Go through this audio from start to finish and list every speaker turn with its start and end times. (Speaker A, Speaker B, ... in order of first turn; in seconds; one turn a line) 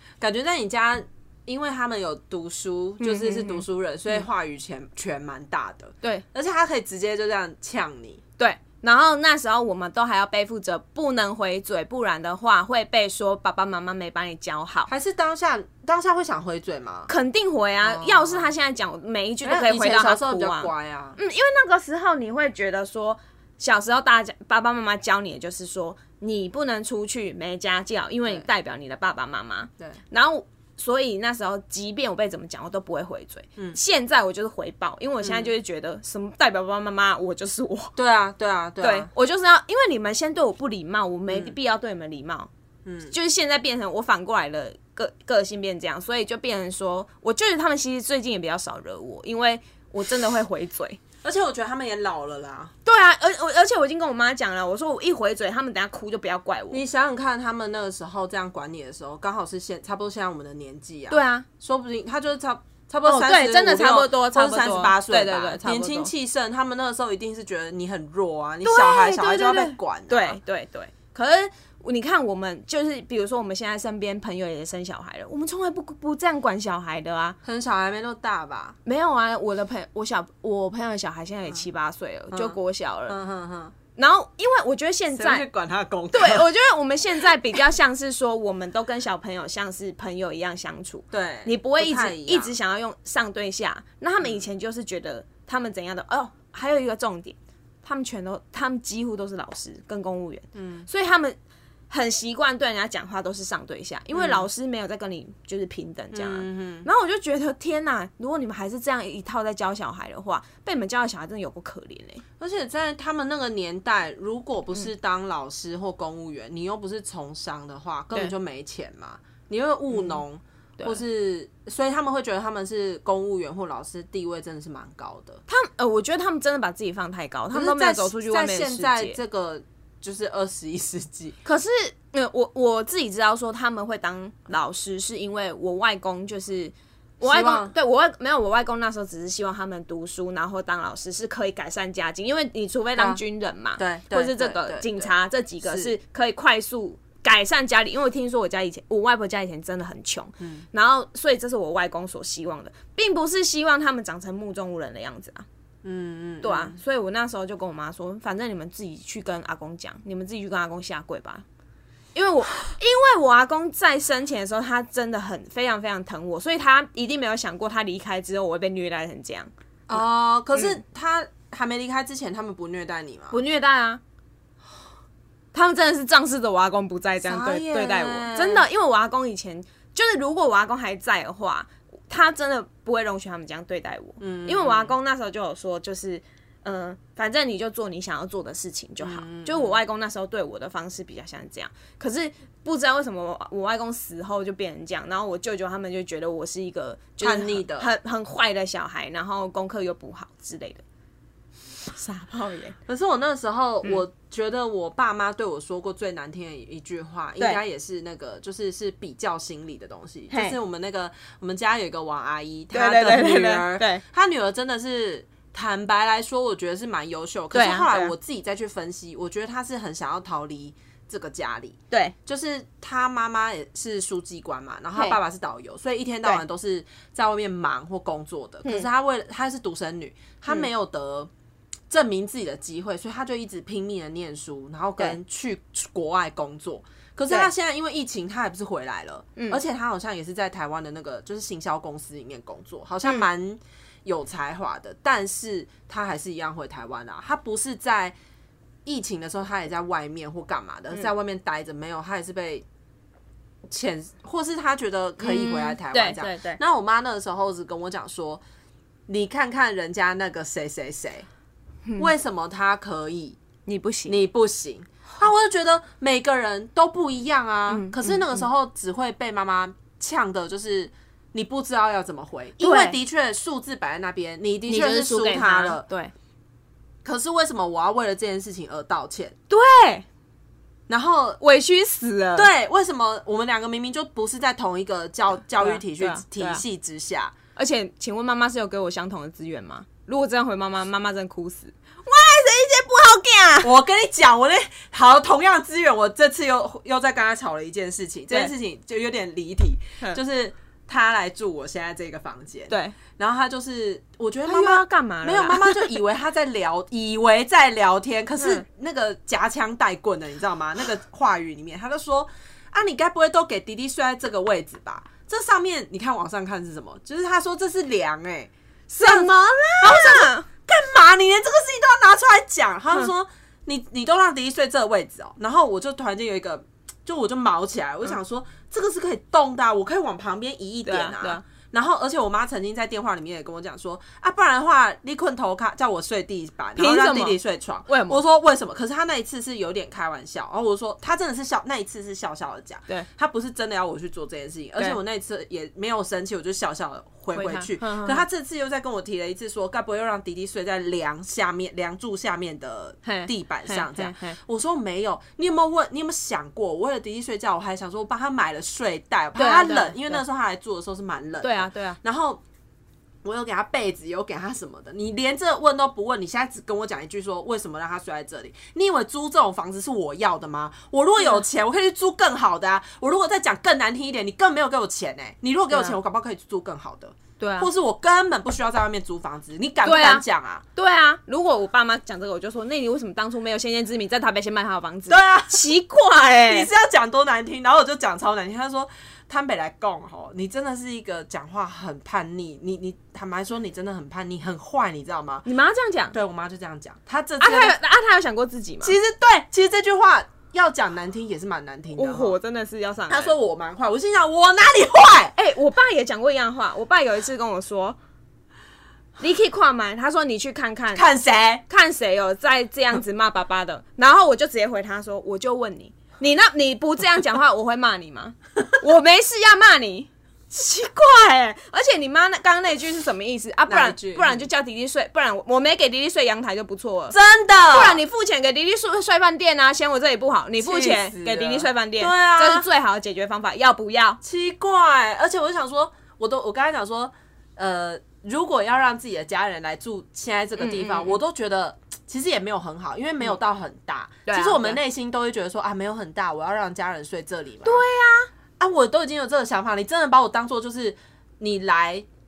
Speaker A: 0.2-8.2
Speaker B: 3.0-3.6
Speaker B: 8.4-14.9
Speaker A: 14.9-17.1
Speaker B: 17.1-37.9
Speaker A: 17.8-18.5
Speaker A: 19.4-21.2
Speaker A: 35.2-35.5
Speaker A: 38.0-39.1
Speaker B: 38.8-42.5
Speaker A: 41.3-41.5
Speaker A: 42.8-43.1
Speaker B: 43.1-51.0
Speaker A: 51.2-52.7
Speaker B: 52.8-56.8
Speaker A: 56.7-70.4
Speaker B: 61.1-61.5
Speaker B: 63.0-66.1
Speaker B: 68.6-77.4
Speaker A: 77.4-78.7
Speaker B: 78.8-83.2
Speaker A: 82.3-83.7
Speaker B: 84.0-85.5
Speaker A: 85.1-86.5
Speaker B: 86.1-101.4
Speaker A: 91.1-92.5
Speaker A: 94.2-94.5
Speaker A: 100.5-100.9
Speaker B: 101.9-112.2
Speaker A: 104.1-104.5
Speaker A: 106.1-106.9
Speaker A: 112.4-125.4
Speaker B: 119.9-120.2
Speaker B: 125.5-129.2
Speaker A: 127.5-131.4
Speaker B: 131.4-155.4
Speaker A: 137.2-137.7
Speaker A: 142.9-143.2
Speaker A: 143.8-145.1
Speaker A: 145.6-145.9
Speaker A: 150.4-150.6
Speaker A: 155.8-156.8
Speaker B: 156.4-161.4
Speaker B: 162.1-169.5
Speaker A: 169.9-173.4
Speaker B: 170.5-170.8
Speaker B: 173.3-174.0
Speaker B: 175.5-200.8
Speaker A: 177.2-178.7
Speaker A: 184.2-184.9
Speaker A: 189.0-189.8
Speaker A: 197.2-197.9
Speaker B: 201.9-202.8
Speaker A: 202.8-231.3
Speaker B: 210.3-210.6
Speaker B: 212.7-214.0
Speaker B: 217.5-218.1
Speaker A: 231.9-248.2
Speaker A: 248.8-252.6
Speaker A: 253.7-258.4
Speaker B: 255.2-256.6
Speaker A: 259.1-261.3
Speaker B: 261.9-262.1
Speaker A: 262.0-263.4
Speaker B: 263.6-264.2
Speaker A: 264.1-275.9
Speaker B: 267.7-268.5
Speaker B: 272.6-273.0
Speaker B: 274.7-276.1
Speaker A: 277.0-279.3
Speaker B: 279.5-280.1
Speaker A: 280.9-281.4
Speaker B: 281.4-282.5
Speaker A: 282.4-287.3
Speaker B: 285.6-286.6
Speaker B: 287.6-293.7
Speaker A: 293.6-362.4
Speaker B: 302.7-302.9
Speaker B: 304.4-306.0
Speaker B: 308.4-308.6
Speaker B: 319.0-320.4
Speaker B: 330.9-331.4
Speaker B: 336.8-338.2
Speaker B: 347.3-348.2
Speaker B: 353.0-354.4
Speaker B: 359.3-360.2
Speaker B: 361.4-362.0
Speaker A: 363.2-380.6
Speaker B: 375.7-376.0
Speaker B: 377.4-377.7
Speaker B: 379.8-380.2
Speaker B: 380.8-386.7
Speaker A: 385.1-385.6
Speaker A: 386.5-395.4
Speaker B: 395.4-396.1
Speaker A: 396.1-397.8
Speaker B: 397.4-398.9
Speaker A: 398.8-402.4
Speaker B: 401.9-403.3
Speaker A: 403.1-405.3
Speaker B: 405.4-408.0
Speaker B: 409.2-411.1
Speaker A: 410.9-411.6
Speaker B: 411.7-427.2
Speaker A: 423.7-424.4
Speaker A: 427.1-428.0
Speaker B: 427.7-434.2
Speaker A: 430.6-432.7
Speaker A: 434.2-447.8
Speaker B: 440.6-441.2
Speaker B: 444.2-444.8
Speaker B: 447.6-448.3
Speaker A: 448.6-452.1